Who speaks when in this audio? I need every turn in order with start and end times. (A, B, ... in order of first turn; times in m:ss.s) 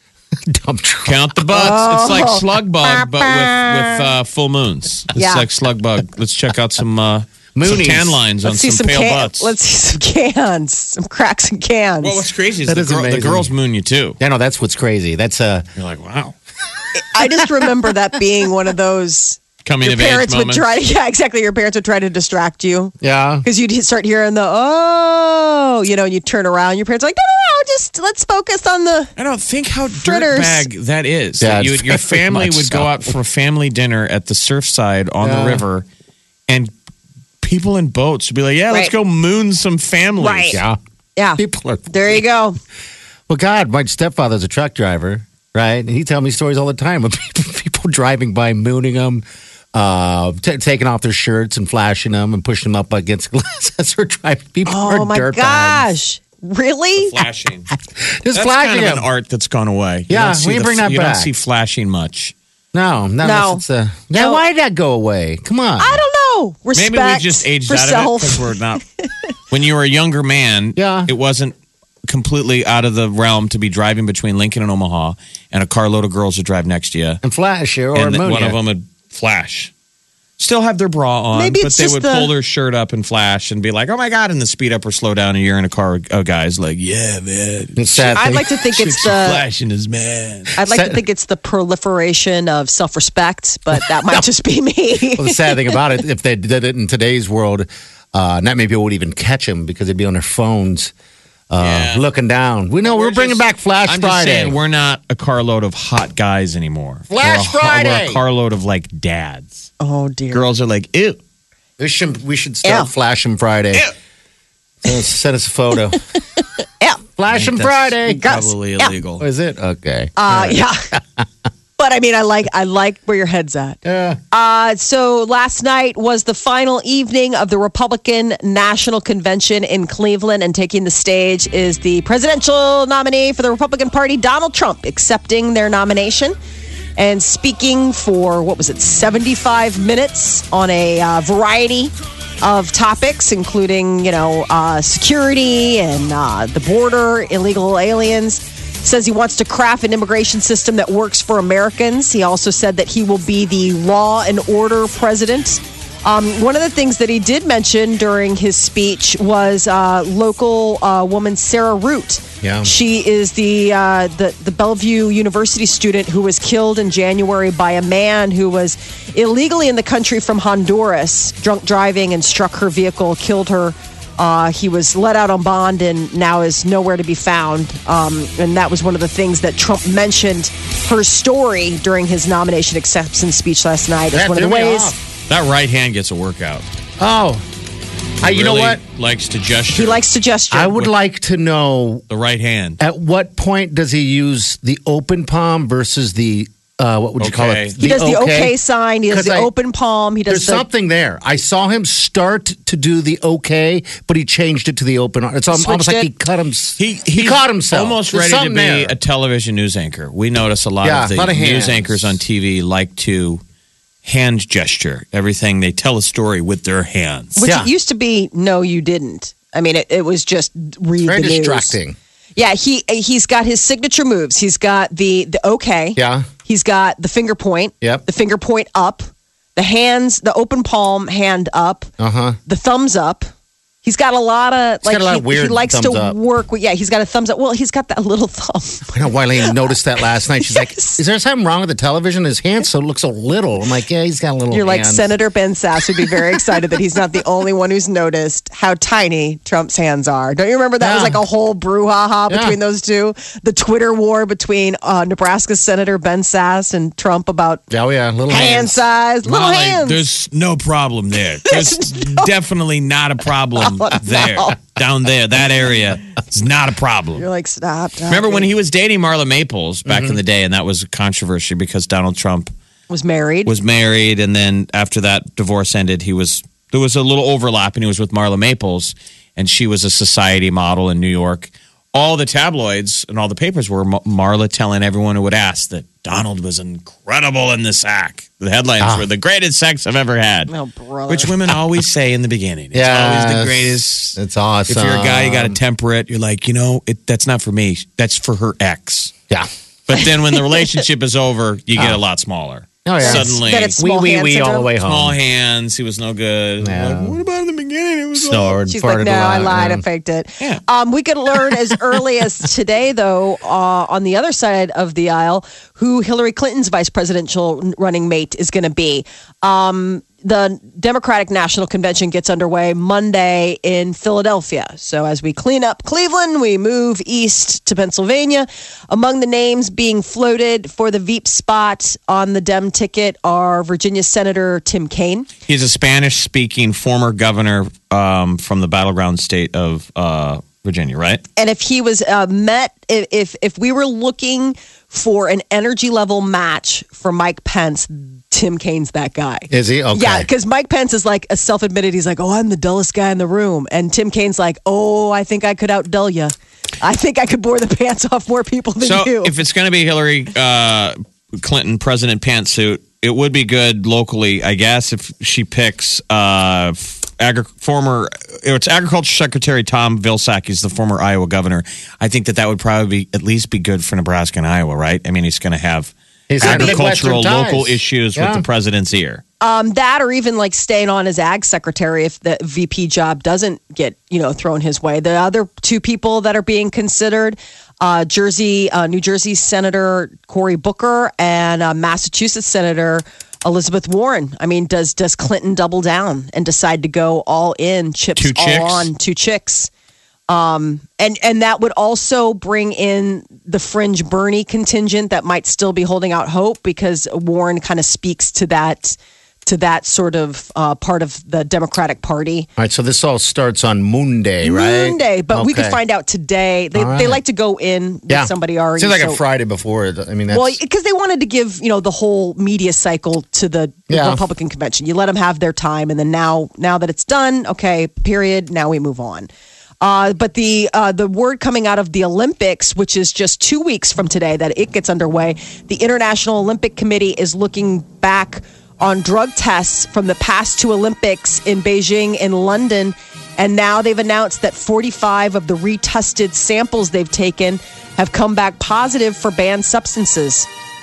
0:00.4-0:01.2 A
0:01.0-0:09.5 B
0:01.5-0:02.4 C
0:05.2-0:05.5 C
0:07.6-0:08.2 A
0:08.4-0:12.2 C
0:12.0-0:14.2 B
0:12.7-0:13.5 A
0:14.2-0:15.7 A
0:15.8-0:16.4 B
0:17.0-0:29.1 C
0:19.6-0:20.6 B
0:23.0-0:23.5 A
0:29.2-0:35.8 B
0:29.9-0:30.7 C
0:31.4-0:33.1 A
0:35.2-0:35.6 A
0:37.4-0:40.6 B
0:40.2-0:40.6 C
0:40.5-0:40.8 A
0:41.2-0:42.6 C
0:41.4-0:42.2 A
0:43.3-0:55.9 A
0:54.7-0:57.2 C
0:57.0-0:57.7 B
0:57.8-0:59.1 A
0:58.3-1:02.3 B
1:00.1-1:01.3 A
1:02.7-1:06.0 A
1:03.2-1:03.6 C
1:04.2-1:04.4 C
1:05.8-1:09.1 C
1:06.8-1:08.8 B
1:09.5-1:11.5 B
1:10.8-1:11.1 A
1:12.1-1:17.2 B
1:17.2-1:18.6 A
1:17.9-1:19.7 B
1:20.4-1:30.6 B
1:21.3-1:22.3 C
1:27.8-1:28.5 A
1:28.1-1:29.4 C
1:30.6-1:35.7 C
1:30.6-1:31.0 A
1:35.1-1:40.9 A
1:41.5-1:44.6 A
1:41.6-1:42.1 B
1:42.8-1:49.7 B
1:47.1-1:48.2 A
1:49.8-1:50.5 C
1:50.3-1:51.2 B
1:51.8-1:53.9 A
1:52.6-1:52.9 C
1:54.8-1:56.0 A
1:57.2-1:58.2 A
1:57.3-1:59.3 B
1:58.1-1:59.0 C
1:59.2-2:01.3 A
2:00.2-2:00.8 C
2:01.8-2:03.8 C
2:03.8-2:04.2 A
2:04.3-2:16.4 C
2:17.0-3:05.0 C
2:42.4-2:42.7 A
3:04.1-3:05.0 A
3:05.3-3:06.7 B
3:07.0-3:07.4 A
3:08.2-3:08.8 A
3:08.2-3:10.0 B
3:09.7-3:10.8 C
3:10.5-3:12.0 A
3:12.1-3:12.8 B
3:12.8-3:18.6 A
3:17.2-3:17.8 B
3:17.8-3:20.7 C
3:19.1-3:19.5 A
3:20.3-3:29.0 A
3:25.5-3:26.1 C
3:26.8-3:33.4 B
3:30.8-3:32.1 A
3:34.0-3:37.4 B
3:37.4-3:41.8 C
3:37.4-3:37.7 A
3:41.0-3:42.0 A
3:42.4-3:51.9 C
3:46.0-3:46.3 A
3:52.0-3:52.4 A
3:52.5-3:53.3 C
3:53.8-3:59.8 C
3:54.8-3:56.2 A
3:58.9-4:05.1 A
4:00.5-4:01.0 C
4:04.5-4:17.6 C
4:10.8-4:11.2 A
4:12.3-4:12.6 A
4:17.7-4:18.8 A
4:18.3-4:20.1 C
4:19.2-4:27.3 B
4:21.5-4:22.3 C
4:23.6-4:24.6 C
4:27.2-4:28.5 C
4:28.1-4:32.5 B
4:29.9-4:30.2 A
4:32.9-4:33.5 C
4:33.5-4:50.5 B
4:48.8-4:49.1 A
4:50.5-4:51.3 C
4:51.1-4:59.1 B
4:52.7-4:55.6 A
4:59.9-5:03.8 B
5:02.8-5:05.2 A
5:03.0-5:04.7 C
5:04.8-5:08.6 B
5:06.6-5:07.2 A
5:08.1-5:09.8 A
5:08.7-5:35.3 C
5:35.5-5:41.2 B
5:41.4-5:59.3 C
5:49.5-5:50.3 A
5:58.8-6:19.2 B
6:16.3-6:18.4 A
6:16.4-6:16.8 C
6:19.4-6:39.7 C
6:38.2-6:38.9 B
6:40.3-6:52.5 C
6:52.6-6:55.8 A
6:54.4-6:59.2 C
6:56.8-6:57.2 A
6:58.1-7:00.6 A
7:00.3-7:09.3 C
7:03.9-7:04.2 A
7:09.8-7:30.5 C